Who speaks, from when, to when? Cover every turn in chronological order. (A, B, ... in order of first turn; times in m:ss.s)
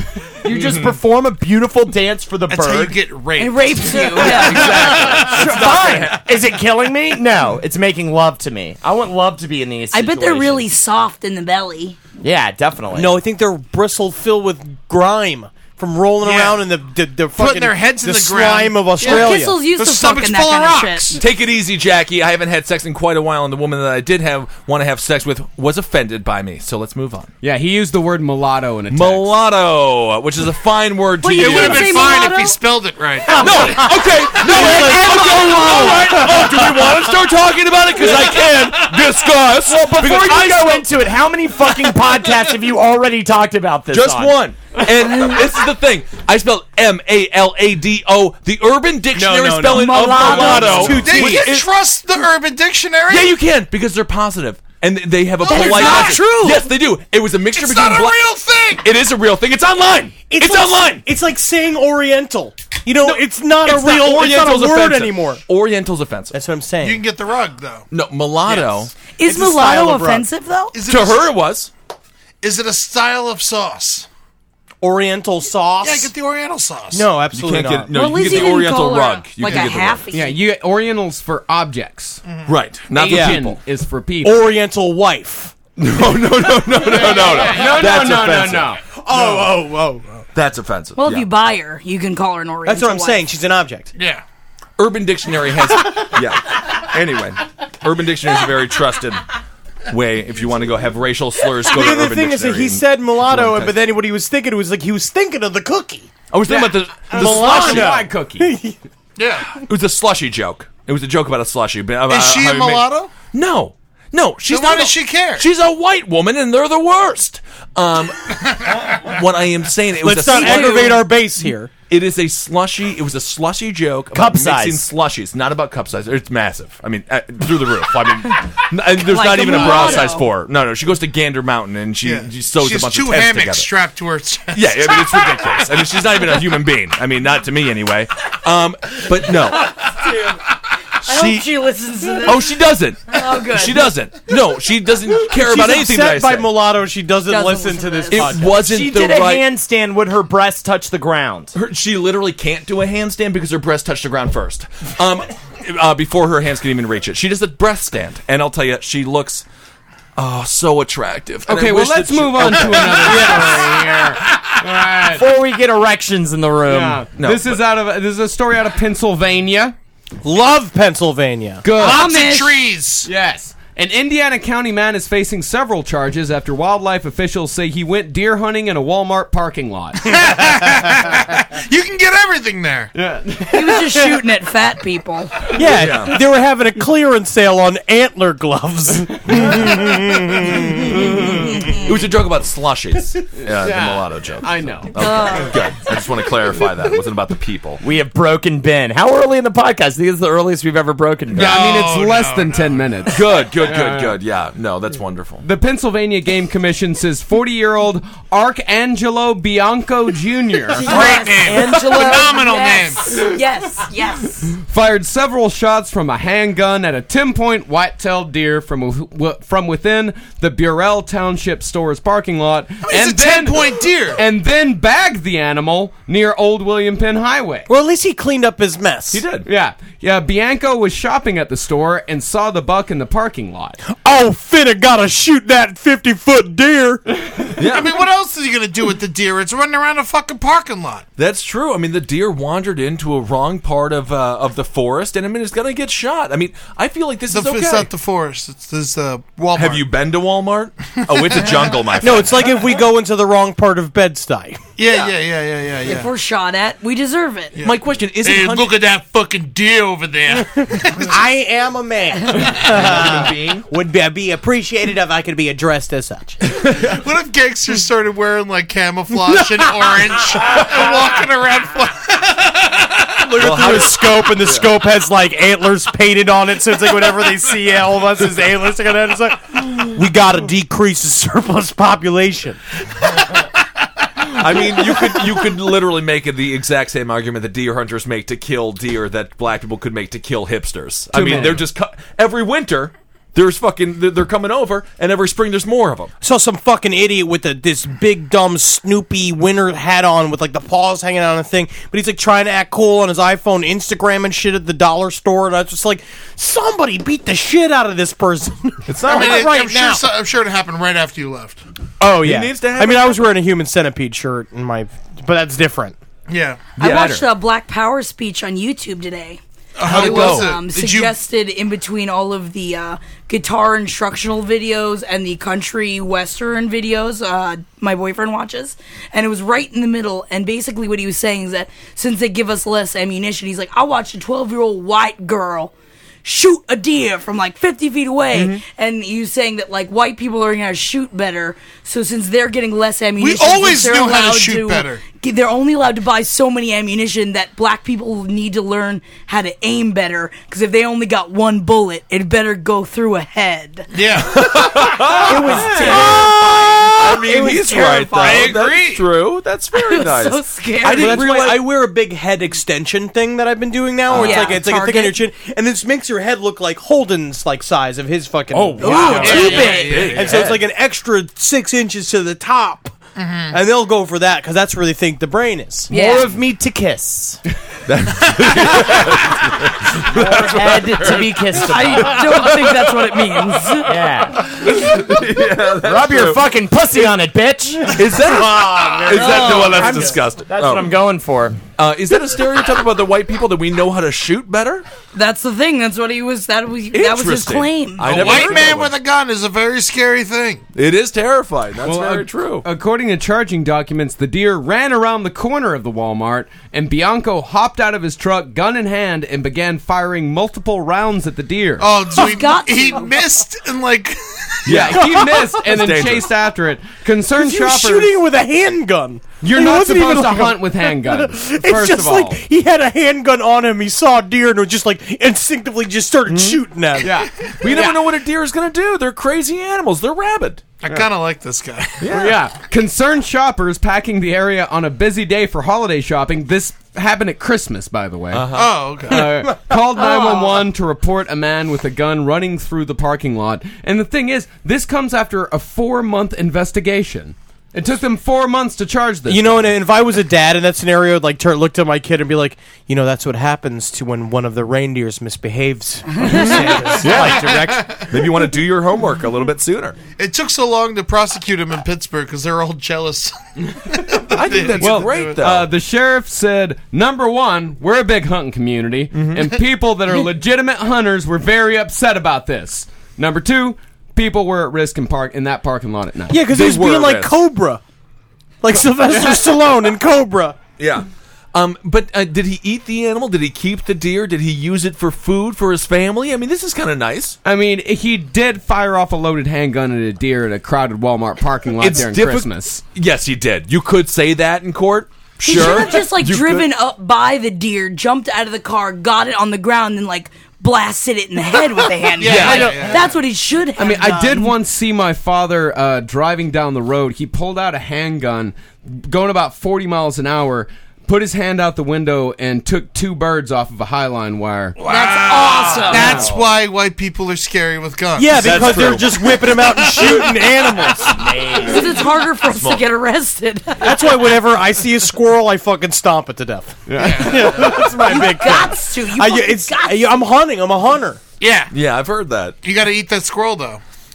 0:00.4-0:03.0 A
0:00.5-0:01.0 B
0:02.5-0:05.5 C
0:03.4-0:05.8 D
0:04.2-0:10.7 A
0:04.2-0:06.2 B
0:09.9-0:12.0 D
0:12.2-0:13.1 A
0:12.9-0:19.6 E
0:16.2-0:16.6 C
0:17.3-0:21.2 C
0:19.0-0:21.2 D
0:21.2-0:27.3 B
0:27.4-0:29.3 F
0:28.9-0:32.1 B
0:31.2-0:32.6 D
0:31.3-0:33.9 C
0:33.2-0:37.0 E
0:33.3-0:40.9 B
0:34.3-0:36.3 D
0:39.6-0:44.4 A
0:43.9-0:51.6 B
0:49.1-0:51.5 E
0:49.5-0:51.0 D
0:50.9-0:53.4 C
0:53.1-1:01.0 B
0:55.4-0:56.3 C
0:55.5-0:56.7 D
0:57.4-0:58.9 C
1:00.3-1:05.4 E
1:03.0-1:06.3 B
1:06.3-1:07.0 E
1:06.8-1:07.9 C
1:07.9-1:08.9 B
1:08.4-1:08.8 C
1:09.1-1:10.8 D
1:09.2-1:10.3 E
1:10.7-1:11.4 C
1:10.9-1:11.7 B
1:12.4-1:14.1 C
1:14.8-1:16.1 E
1:15.8-1:17.1 C
1:16.9-1:17.9 E
1:17.3-1:20.1 B
1:17.9-1:20.4 D
1:19.4-1:19.7 C
1:20.1-1:22.2 F
1:22.2-1:22.6 C
1:22.5-1:23.6 B
1:22.9-1:24.4 F
1:23.1-1:23.4 E
1:24.2-1:25.6 E
1:25.8-1:29.5 B
1:27.1-1:28.8 F
1:29.0-1:30.2 E
1:30.3-1:31.3 B
1:31.0-1:33.2 D
1:32.6-1:33.9 E
1:34.0-1:34.2 C
1:34.8-1:39.2 B
1:39.9-1:43.8 B
1:41.6-1:48.8 E
1:46.3-1:48.0 B
1:46.5-1:48.5 F
1:49.2-1:49.6 C
1:49.5-2:01.0 B
1:52.1-1:53.1 C
1:54.4-1:55.5 C
1:58.5-1:59.0 C
2:00.0-2:01.7 E
2:00.2-2:01.0 D
2:01.9-2:13.7 B
2:04.1-2:04.9 A
2:09.0-2:10.2 D
2:12.0-2:15.4 C
2:14.5-2:19.8 B
2:21.0-2:23.9 D
2:21.0-2:21.5 B
2:22.2-2:26.5 B
2:25.2-2:28.6 E
2:27.3-2:28.4 D
2:28.1-2:29.5 B
2:28.5-2:31.5 A
2:31.5-2:39.4 B
2:40.2-2:43.5 B
2:41.4-2:45.2 F
2:43.0-2:44.1 E
2:45.0-2:47.0 A
2:46.7-2:49.7 F
2:47.1-2:47.6 B
2:50.2-2:51.6 E
2:51.6-2:52.1 F
2:51.7-2:53.1 C
2:51.8-2:52.7 D
2:53.0-3:00.2 F
3:00.0-3:02.9 C
3:02.9-3:03.9 F
3:03.5-3:05.5 D
3:05.5-3:11.5 E
3:05.7-3:06.2 B
3:10.9-3:11.5 F
3:11.7-3:17.8 B
3:13.4-3:15.0 F
3:15.0-3:15.6 D
3:17.8-3:21.6 A
3:21.3-3:23.0 C
3:21.3-3:24.2 F
3:23.0-3:25.4 B
3:25.4-3:30.9 F
3:30.7-3:34.5 D
3:30.8-3:33.2 C
3:30.9-3:32.2 A
3:34.6-3:47.7 F
3:42.8-3:44.2 C
3:47.7-3:49.2 E
3:49.1-3:49.5 B
3:49.4-3:53.8 F
3:53.9-3:57.0 E
3:57.6-3:58.0 B
3:57.6-4:01.0 C
4:01.2-4:07.9 B
4:07.3-4:09.9 C
4:09.5-4:12.5 B
4:11.0-4:11.9 C
4:12.0-4:14.6 E
4:14.8-4:16.1 C
4:15.8-4:17.5 D
4:17.5-4:21.2 C
4:17.6-4:18.7 B
4:21.0-4:26.4 E
4:22.7-4:23.6 B
4:22.8-4:23.2 A
4:26.6-4:27.0 B
4:26.6-4:33.2 C
4:33.2-4:42.6 E
4:33.4-4:34.7 B
4:44.2-4:56.1 B
4:51.1-4:51.6 F
4:56.2-5:10.0 E
5:08.9-5:09.3 B
5:09.0-5:11.6 C
5:12.0-5:16.0 E
5:12.2-5:13.2 B
5:16.3-5:16.7 C
5:16.8-5:17.2 F
5:16.8-5:35.7 D
5:16.8-5:17.2 B
5:19.8-5:21.1 C
5:19.8-5:20.5 B
5:36.2-5:53.9 D
5:43.2-5:45.0 C
5:53.9-5:54.8 C
5:54.2-6:01.6 B
5:55.2-5:57.9 E
5:55.3-5:58.6 D
5:58.2-5:59.0 C
5:59.7-6:01.3 D
6:00.9-6:13.0 E
6:04.1-6:04.5 B
6:04.1-6:05.2 D
6:08.5-6:10.6 B
6:08.8-6:10.2 D
6:09.1-6:10.4 C
6:13.2-6:13.6 C
6:13.5-6:15.9 E
6:15.9-6:16.3 D
6:15.9-6:17.4 A
6:17.9-6:22.9 B
6:20.0-6:22.4 A
6:21.5-6:24.0 D
6:23.8-6:24.5 A
6:24.5-6:26.4 B
6:25.8-6:28.0 A
6:27.9-6:30.9 B
6:28.2-6:30.2 E
6:28.6-6:31.6 A
6:29.1-6:30.1 D
6:31.8-6:34.8 B
6:35.1-6:38.7 D
6:36.9-6:38.9 B
6:38.0-6:40.6 C
6:40.7-6:42.6 B
6:41.8-6:51.9 F
6:51.8-6:54.8 C
6:52.2-6:53.1 D
6:54.6-6:56.3 B
6:54.7-6:58.1 F
6:55.0-6:55.4 E
6:57.3-7:07.2 E
6:59.4-7:02.4 F
7:07.0-7:08.0 F
7:07.6-7:10.7 B
7:10.8-7:12.1 C
7:12.0-7:12.4 B
7:12.1-7:18.5 F
7:18.3-7:18.9 B
7:18.5-7:19.3 C
7:19.0-7:29.7 F
7:19.4-7:20.3 E
7:29.3-7:38.0 E
7:36.2-7:36.7 D
7:37.0-7:37.5 B
7:37.0-7:38.1 C
7:38.1-7:40.0 B
7:40.2-7:45.4 C
7:44.3-7:45.7 B
7:44.8-7:56.4 F
7:49.1-7:49.5 B
7:56.3-7:57.8 E
7:56.5-7:57.3 B
7:58.6-8:00.6 E
8:00.8-8:07.4 B
8:07.4-8:12.8 F
8:11.8-8:16.6 B
8:15.4-8:24.5 D
8:22.2-8:23.1 C
8:22.2-8:22.8 B
8:23.8-8:34.8 F
8:34.8-8:38.9 C
8:34.8-8:36.2 D
8:35.9-8:36.5 A
8:38.2-8:41.3 E
8:38.3-8:39.3 B
8:41.1-8:42.0 A
8:41.6-8:44.2 D
8:42.5-8:42.8 B
8:43.8-8:51.2 E
8:46.9-8:47.6 F
8:47.0-8:47.7 C
8:47.8-8:50.0 D
8:51.4-8:51.7 C
8:51.7-8:52.6 B
8:52.6-8:53.8 C